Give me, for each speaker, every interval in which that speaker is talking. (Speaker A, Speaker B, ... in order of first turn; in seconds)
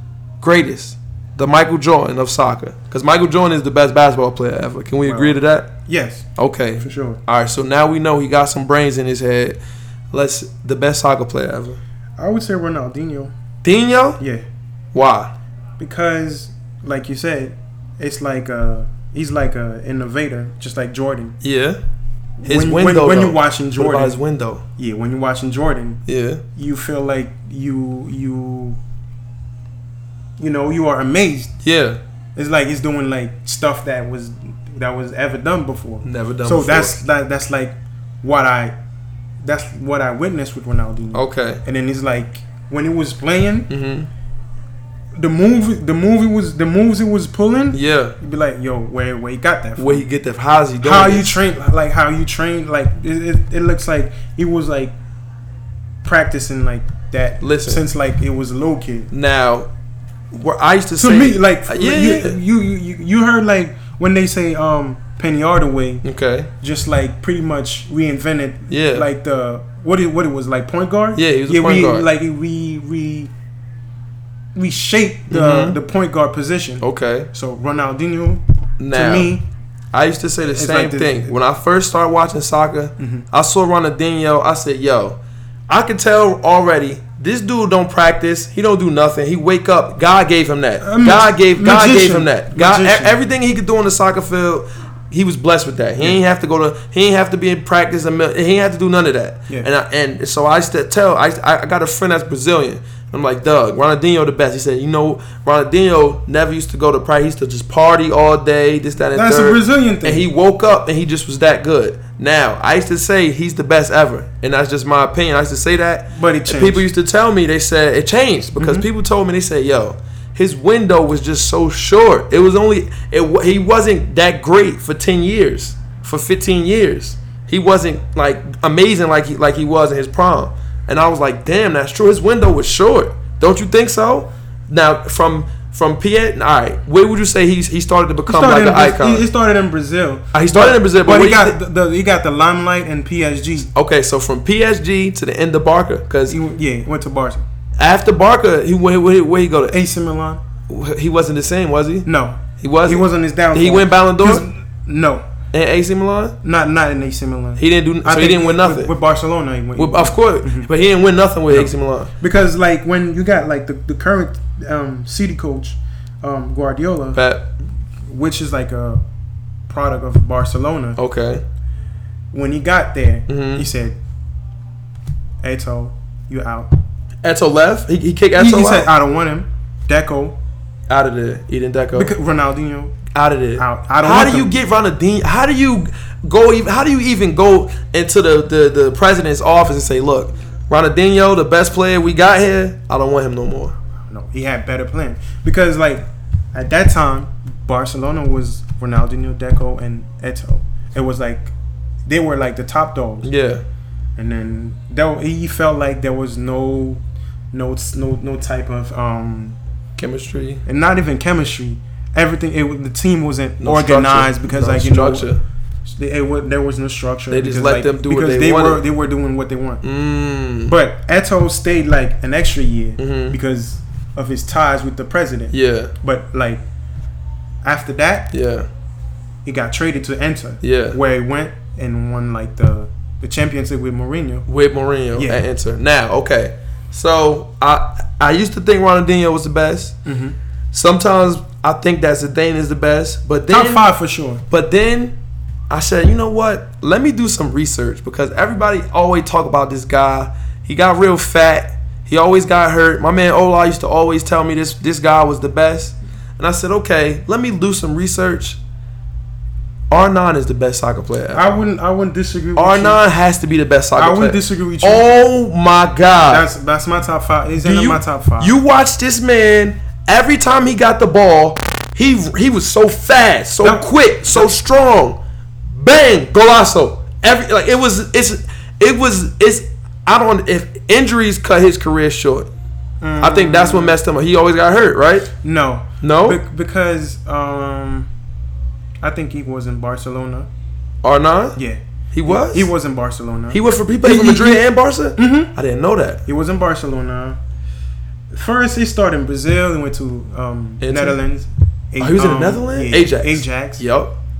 Speaker A: 0.4-5.7, 6.4-9.6, 10.1-11.8, 13.6-14.2, 14.9-15.3, 21.4-21.8, 22.5-24.6, 26.1-26.4, 31.6-32.0, 36.0-37.0, 41.1-41.6, 43.7-44.1, 47.7-48.2, 49.8-51.4, 57.4-57.8, 59.1-59.7, 60.3-62.4, 66.0-66.5, 68.7-69.1, 71.2-72.1, 75.3-75.8, 76.8-77.3, 78.8-79.3, 79.9-139.2, 140.3-141.6, 143.7-146.4, 147.8-149.8, 150.7-152.1, 152.6-154.4, 155.5-156.4, 157.6-158.9, 159.8-162.1, 167.1-167.5, 171.0-171.4, 173.3-173.7, 177.2-178.9, 180.9-182.1, 183.1-193.8, 203.2-203.6, 210.0-210.6, 213.6-215.4, 217.3-218.8, 219.8-220.8, 223.0-223.4, 225.5-225.9, 228.3-228.7, 230.6-231.0, 234.5-239.9, 240.7-243.9, 244.5-245.2, 245.7-258.6, 259.9-261.6, 262.6-266.4, 267.6-282.5, 283.2-285.3, 286.0-286.4, 291.0-291.6, 292.1-292.7, 293.5-296.2, 300.8-301.2, 302.0-304.1
Speaker B: 5.0-6.3, 6.8-7.2, 12.2-13.3, 14.2-14.4, 15.8-21.4, 22.4-24.2, 24.8-26.0, 26.6-28.8, 30.4-31.6, 32.4-38.8, 39.4-43.7, 45.2-50.1, 50.8-55.0, 56.0-59.1, 61.0-66.0, 66.6-73.3, 74.5-78.4, 78.9-79.4, 80.6-81.3, 83.0-83.3, 90.8-93.1, 109.1-110.2, 116.2-116.8, 118.6-118.9, 138.3-143.7, 146.3-147.4, 149.7-150.4, 152.1-155.2, 156.4-160.7, 161.5-167.2, 168.1-169.0, 169.7-171.0, 172.3-174.0, 175.4-176.8, 178.4-180.4, 181.9-183.0, 183.6-184.5, 194.1-201.5, 202.1-203.3, 204.2-207.0, 207.5-209.6, 210.7-215.3, 215.9-219.8, 220.7-226.6, 227.6-228.3, 229.4-234.5, 240.1-240.4, 243.5-244.4, 261.3-263.0, 264.0-265.1, 266.3-268.6, 273.6-274.5, 283.0-284.0, 285.4-288.1, 289.0-290.5, 291.6-294.6, 295.2-295.5, 296.2-297.4, 298.3-303.8